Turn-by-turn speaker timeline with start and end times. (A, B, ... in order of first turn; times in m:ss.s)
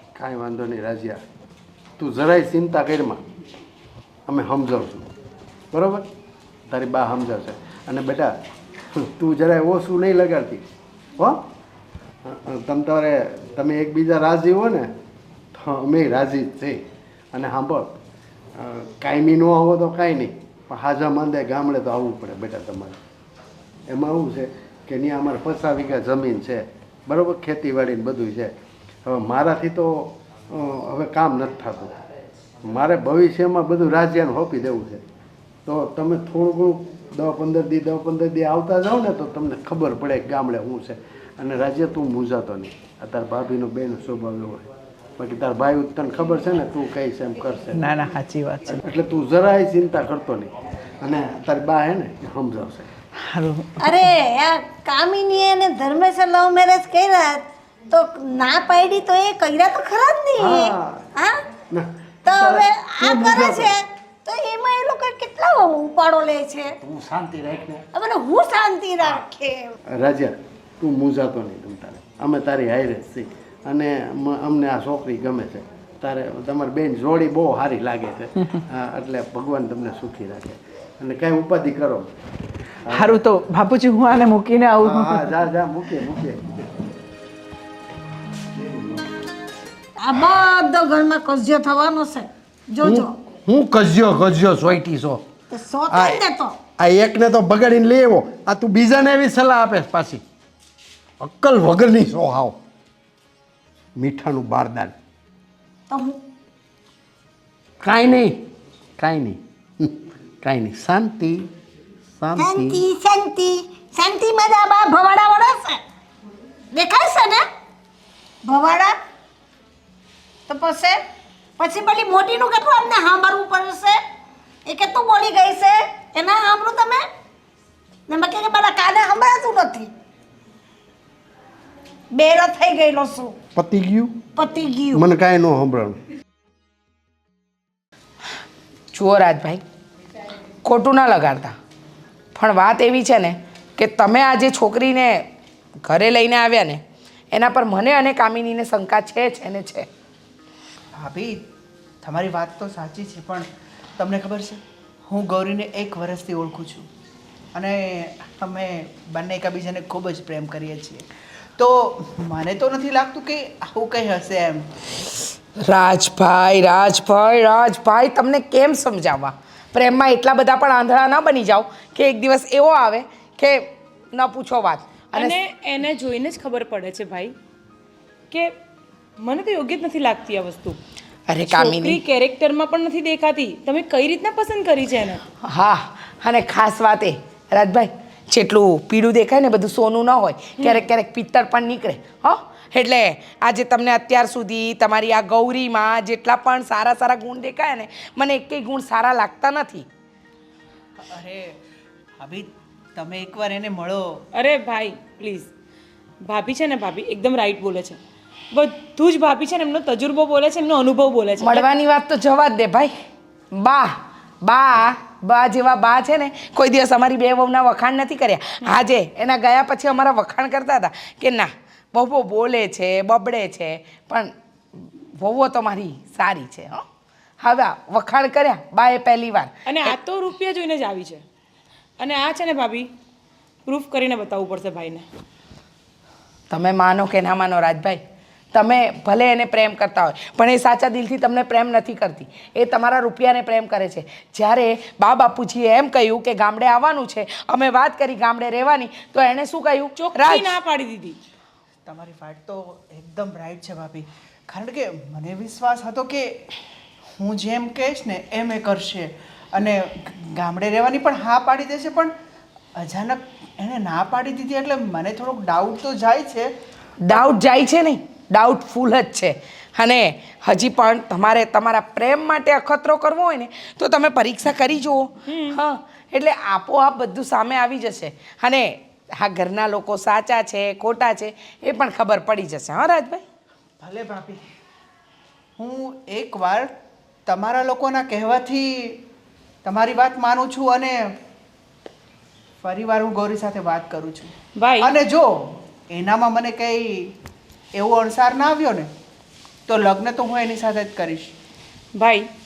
0:00.2-0:01.2 A
0:02.0-0:03.2 A
0:04.3-0:05.1 A
0:05.7-0:06.0 A
0:06.7-0:08.3 A
0:09.0-0:10.6 A
0:11.2-0:11.4 A
0:12.2-0:14.9 A
0:15.5-0:18.0 A
0:18.6-0:23.0 A
0:23.9-0:28.5 A
0:29.0-0:31.9 A
0:32.6-0:35.0 A
0:35.6-0:47.9 A
0:47.9-0:48.7 B
0:48.8-0:52.9 A
0:53.3-0:53.7 B
0:53.8-1:01.4 C
1:00.4-1:01.1 A
1:01.7-1:03.7 A
1:02.2-1:06.7 C
1:06.8-1:07.9 A
1:07.9-1:09.7 C
1:09.9-1:22.1 A
1:22.9-1:23.2 A
1:23.1-1:25.2 B
1:24.8-1:26.5 A
1:30.0-1:33.1 C
1:32.8-1:35.2 A
1:35.5-1:36.6 C
1:35.9-1:36.2 A
1:36.8-1:40.2 A
1:41.2-1:42.6 A
1:44.0-1:44.9 A
1:45.9-1:46.2 C
1:47.8-1:48.4 A
1:49.0-1:51.5 A
1:52.2-1:52.8 A
1:52.4-1:55.8 C
1:56.7-1:57.4 C
1:58.4-1:59.0 C
2:00.5-2:01.0 C
2:01.6-2:04.0 C
2:04.6-2:07.0 C
2:08.1-2:09.9 C
2:12.1-2:13.4 C
2:13.5-2:14.2 A
2:14.4-2:15.0 C
2:14.9-2:16.0 A
2:18.9-2:19.6 D
2:20.6-2:21.5 D
2:22.4-2:25.2 D
2:25.9-2:26.8 D
2:27.3-2:29.9 D
2:31.0-2:31.4 B
2:32.0-2:33.4 B
2:34.0-2:36.8 B
2:37.5-2:41.0 B
2:41.6-2:44.6 B
2:45.6-2:55.4 D
2:55.1-2:57.3 E
2:59.2-3:00.8 E
3:01.3-3:02.0 D
3:01.4-3:05.2 E
3:05.4-3:19.8 D
3:10.6-3:10.8 E
3:21.1-3:21.5 B
3:22.2-3:24.0 B
3:24.3-3:25.5 E
3:26.2-3:28.0 E
3:28.5-3:31.7 E
3:31.4-3:32.9 D
3:33.6-3:33.9 D
3:34.4-3:44.3 D
3:45.2-3:46.8 D
3:47.4-3:49.9 D
3:49.7-3:51.2 E
3:52.0-3:52.9 E
3:53.7-3:55.0 E
3:56.5-3:58.0 D
3:58.5-4:10.6 D
4:10.0-4:11.2 E
4:11.9-4:16.4 B
4:17.2-4:19.0 B
4:19.6-4:22.1 B
4:22.8-4:26.4 B
4:27.0-4:43.2 D
4:35.3-4:35.6 E
4:43.8-4:44.4 B
4:45.6-4:46.6 B
4:47.3-4:49.0 B
4:49.6-4:51.1 B
4:52.6-4:54.3 B
4:54.6-4:54.9 E
4:54.8-4:55.3 B
4:55.9-4:57.1 B
4:57.8-4:58.8 B
4:59.7-5:01.3 B
5:02.0-5:02.3 E